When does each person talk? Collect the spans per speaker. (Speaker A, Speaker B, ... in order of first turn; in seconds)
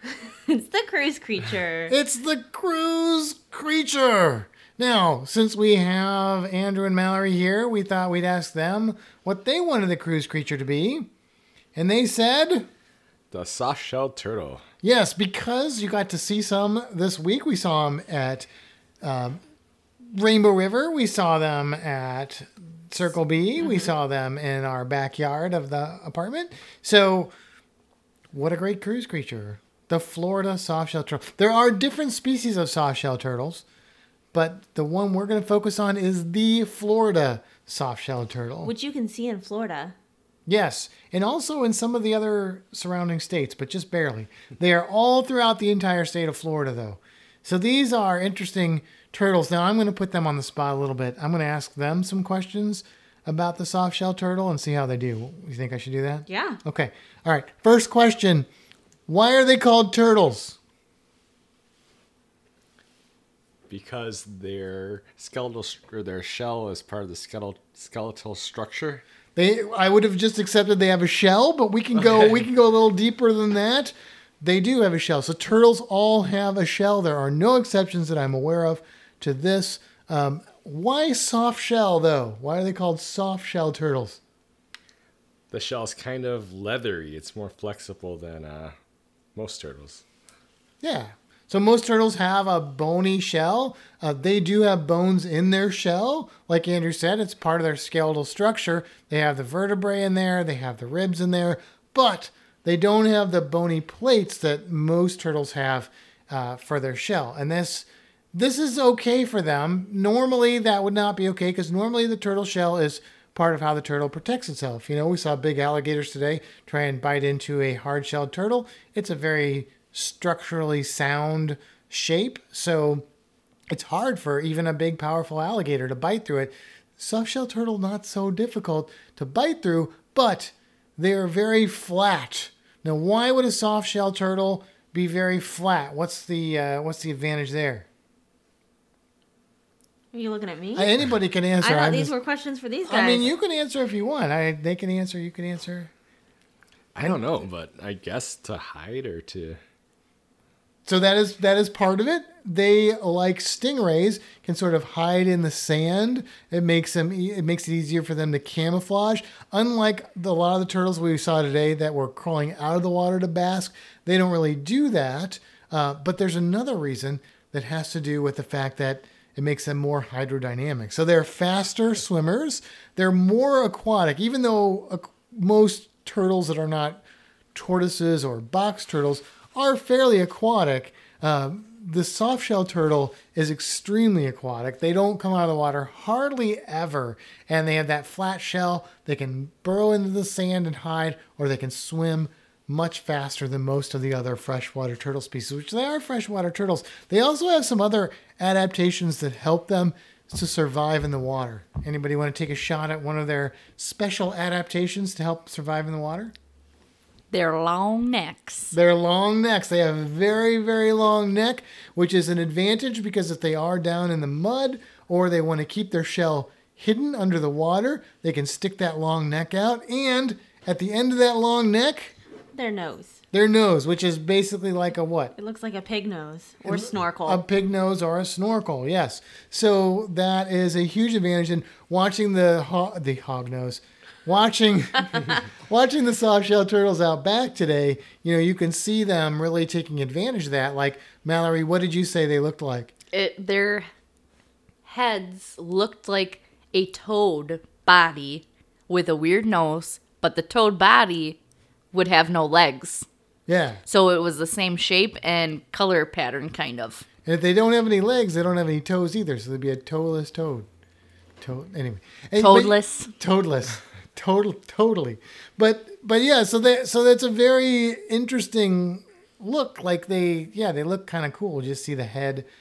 Speaker A: 0.1-2.0, 38.6-40.0, 56.3-56.6, 140.1-140.9, 141.6-143.3, 222.5-223.2, 225.4-227.4
Speaker B: 1.9-11.1, 11.8-12.7, 14.8-18.5, 19.0-19.4, 20.0-27.3, 28.3-33.6, 34.3-38.7, 40.5-58.5, 59.1-60.6, 69.4-84.2, 90.8-123.1, 123.7-137.9, 140.8-142.1, 142.9-145.9, 150.9-177.0, 177.5-206.3, 208.7-222.1, 223.3-225.3, 226.7-242.9, 253.5-253.8, 257.2-260.7, 261.4-272.5
Speaker C: 13.3-14.6, 63.7-69.0, 85.5-88.8, 89.3-90.0, 146.9-149.6
Speaker D: 207.3-208.7, 243.1-243.9, 244.8-251.4, 251.9-253.1, 253.9-257.1, 262.4-263.1